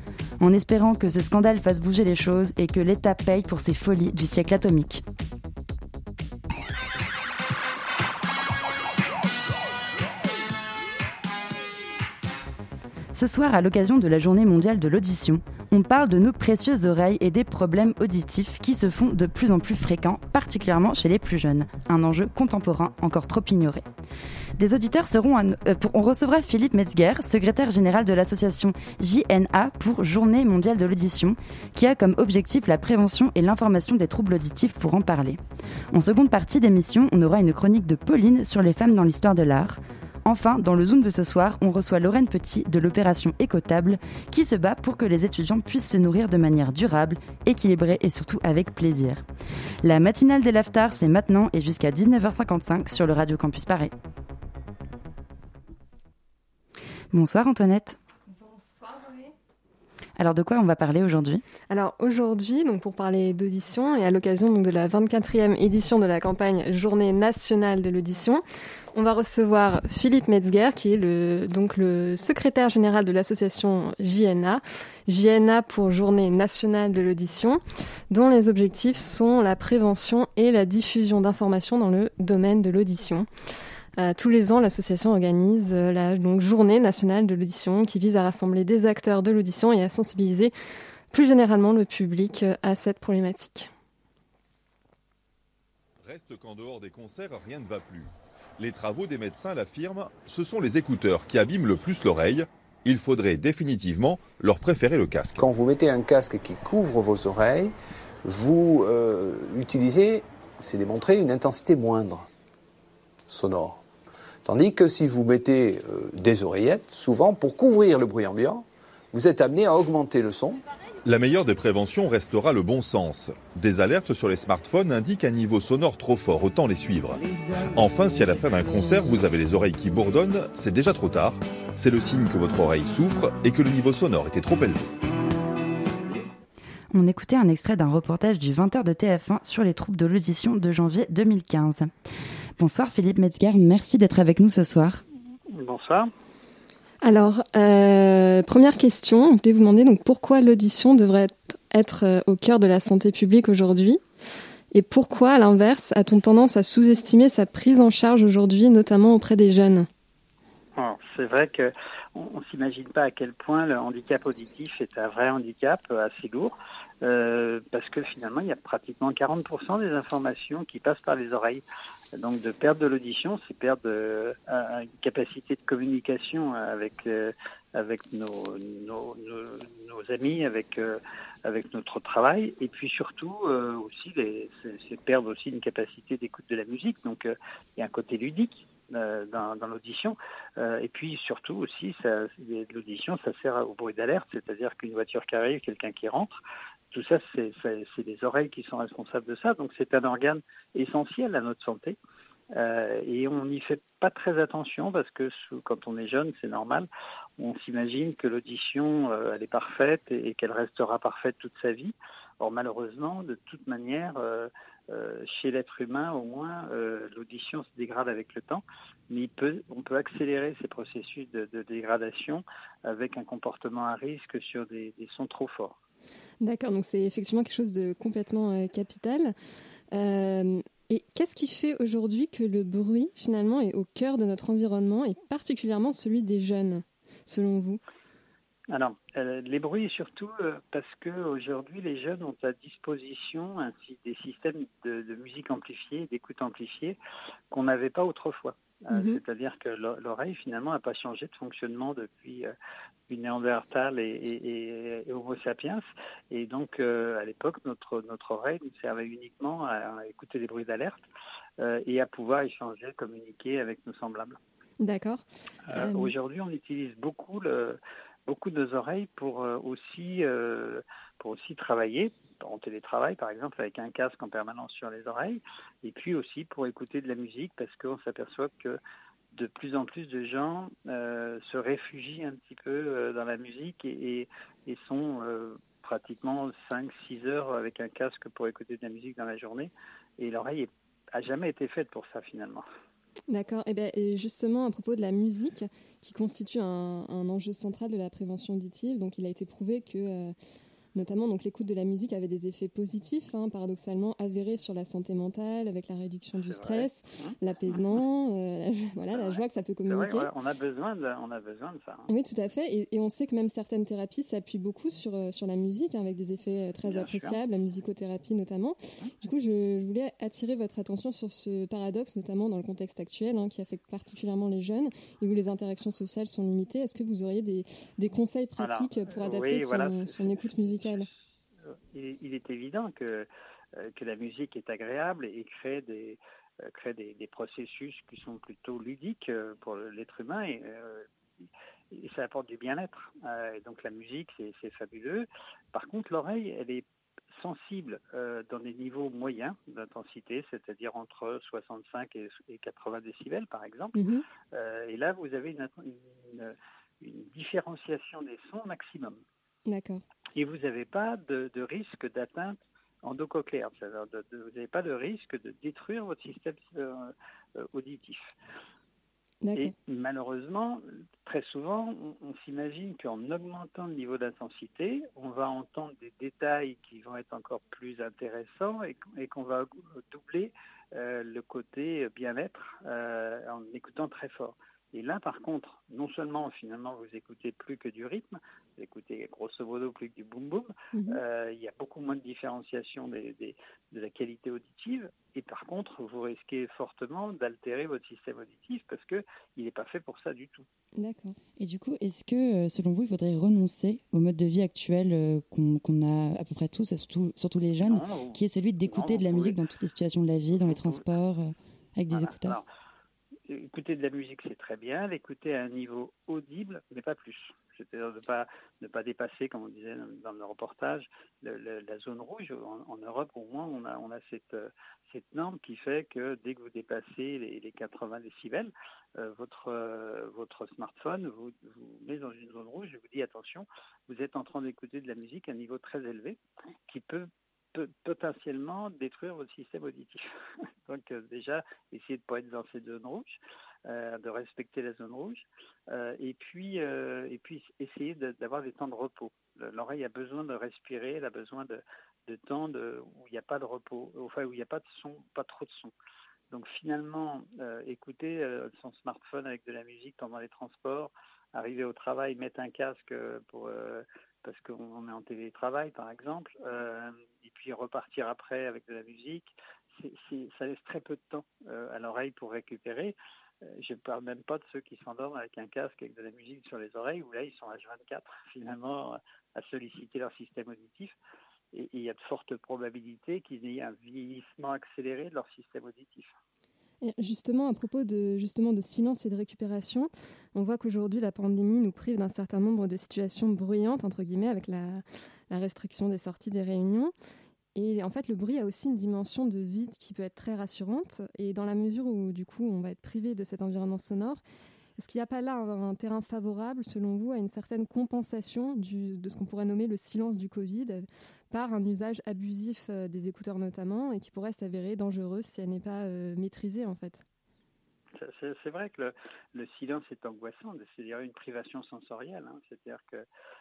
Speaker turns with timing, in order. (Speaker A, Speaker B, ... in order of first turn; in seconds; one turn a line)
Speaker A: 0.4-5.0
Speaker A: 13.1-23.8
Speaker A: 24.6-35.4
Speaker A: 35.9-49.2
Speaker A: 49.8-53.9
Speaker A: 57.1-58.0
Speaker B: 58.3-59.3
Speaker A: 60.2-61.4
Speaker B: 61.7-68.4
Speaker B: 68.9-83.3
Speaker B: 84.0-90.5
Speaker B: 91.1-93.7
Speaker C: 96.0-105.4
Speaker D: 105.4-107.7
Speaker D: 108.2-112.3
Speaker D: 113.3-113.8
Speaker D: 114.4-120.6
Speaker C: 121.0-134.8
Speaker A: 136.9-141.9
Speaker A: 142.6-145.0
Speaker E: 145.5-146.1
Speaker B: 147.0-154.0
Speaker B: 154.7-159.9
Speaker E: 160.8-171.6
Speaker E: 172.1-196.4
Speaker E: 196.9-202.0
Speaker E: 202.5-206.9
Speaker E: 207.4-225.8
Speaker B: 226.4-229.3
Speaker B: 229.9-237.8
Speaker E: 238.7-247.0
Speaker E: 247.5-252.5
Speaker B: 248.9-249.2
Speaker E: 253.1-261.0
Speaker E: 261.6-264.4
Speaker B: 264.8-266.1
Speaker E: 265.7-278.8
Speaker E: 279.3-292.6
Speaker B: 293.3-300.3
Speaker B: 300.9-310.3
Speaker E: 306.4-307.4
Speaker E: 309.1-312.1
Speaker B: 312.1-331.1
Speaker E: 316.8-317.4
Speaker E: 328.6-331.1
Speaker E: 331.6-354.0
Speaker B: 353.9-354.2
Speaker E: 354.5-359.2
Speaker B: 359.7-360.0
Speaker E: 360.4-368.3
Speaker B: 369.4-369.7
Speaker E: 369.5-400.6
Speaker B: 390.9-391.2
Speaker B: 401.0-401.4
Speaker A: 401.6-412.6
Speaker E: 407.9-409.6
Speaker E: 410.7-411.0
Speaker E: 412.1-412.6
Speaker E: 413.5-440.3
Speaker E: 440.9-455.9
Speaker E: 456.5-481.1
Speaker E: 481.7-486.3
Speaker B: 487.0-497.1
Speaker B: 497.7-504.4
Speaker B: 505.0-517.2
Speaker E: 518.1-523.2